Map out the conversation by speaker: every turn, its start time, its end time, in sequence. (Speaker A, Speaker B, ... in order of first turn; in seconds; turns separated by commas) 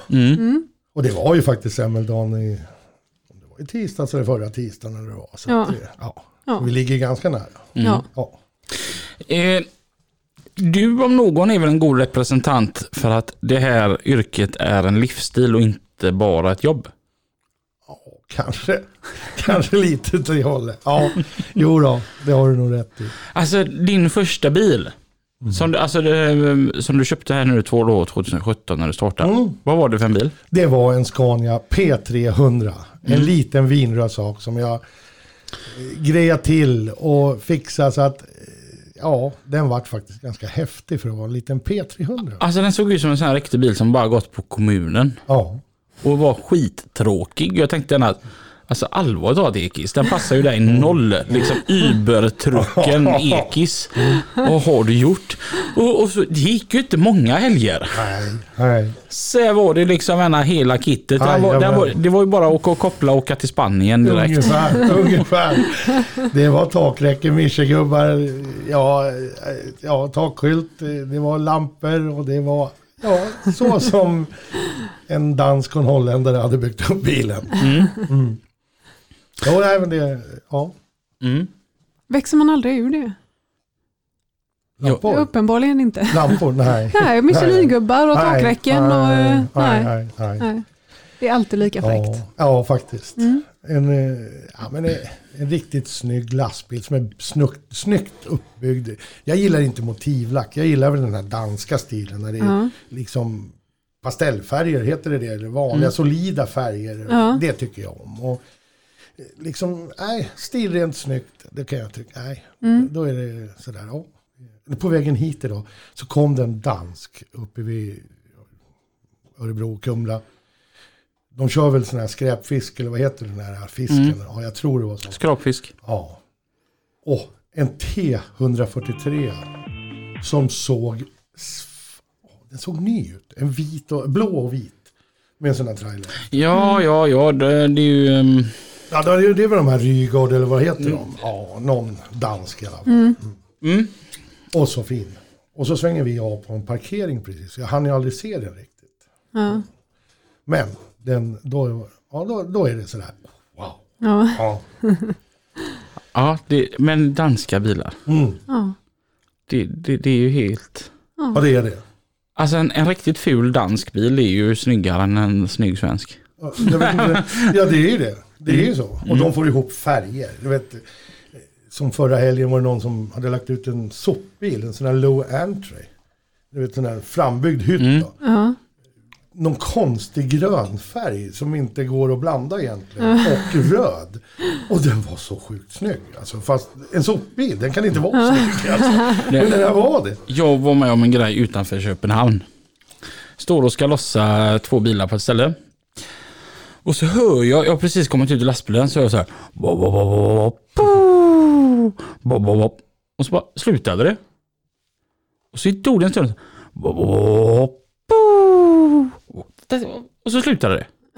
Speaker A: 0.1-0.4, Speaker B: 0.3-0.6, Speaker C: 0.9-2.7, Speaker C: 3.4-8.3, Speaker B: 5.5-5.8, Speaker A: 7.8-8.0, Speaker A: 9.2-9.7, Speaker A: 10.6-16.9, Speaker C: 17.9-23.1, Speaker A: 23.3-24.9, Speaker A: 25.5-30.3, Speaker C: 29.2-29.6, Speaker C: 30.5-34.8, Speaker A: 33.0-33.3, Speaker C: 35.6-42.4, Speaker A: 42.4-45.2, Speaker C: 45.3-45.6, Speaker A: 46.0-58.1, Speaker C: 50.7-51.5, Speaker C: 52.5-53.5, Speaker C: 57.9-59.0, Speaker A: 59.1-64.8, Speaker C: 61.2-62.0, Speaker C: 64.0-74.3, Speaker C: 75.0-78.4, Speaker A: 77.6-78.0, Speaker C: 79.4-80.7, Speaker A: 81.2-81.5, Speaker B: 82.1-83.1, Speaker C: 84.8-85.3, Speaker B: 85.0-90.6, Speaker C: 86.1-90.5, Speaker B: 91.2-92.2, Speaker C: 91.8-108.4, Speaker B: 93.2-93.4, Speaker B: 102.4-102.7, Speaker B: 107.1-107.4, Speaker C: 109.2-118.2, Speaker B: 112.6-112.9, Speaker C: 119.4-120.2, Speaker C: 121.3-125.2, Speaker A: 123.9-124.2, Speaker A: 125.1-125.7, Speaker C: 125.8-126.2, Speaker C: 127.0-129.5, Speaker C: 130.2-131.9, Speaker C: 132.4-136.3, Speaker A: 136.3-138.5, Speaker B: 136.5-136.8, Speaker C: 138.9-143.3, Speaker B: 142.9-143.2, Speaker A: 143.6-143.9, Speaker C: 144.5-148.9, Speaker B: 149.3-149.6, Speaker C: 150.4-153.8, Speaker B: 154.0-155.1, Speaker C: 154.3-154.6, Speaker A: 156.1-158.0, Speaker C: 158.1-158.4, Speaker B: 158.5-158.7, Speaker A: 159.5-160.9, Speaker C: 161.3-161.8, Speaker A: 162.4-167.5, Speaker C: 166.4-175.9, Speaker A: 168.5-169.3, Speaker C: 176.5-178.1, Speaker A: 177.8-178.1, Speaker B: 178.2-178.6, Speaker C: 179.3-190.2, Speaker B: 188.2-188.4, Speaker A: 189.3-189.6, Speaker A: 190.3-192.4, Speaker A: 193.4-195.6, Speaker A: 196.8-204.2, Speaker A: 205.5-210.9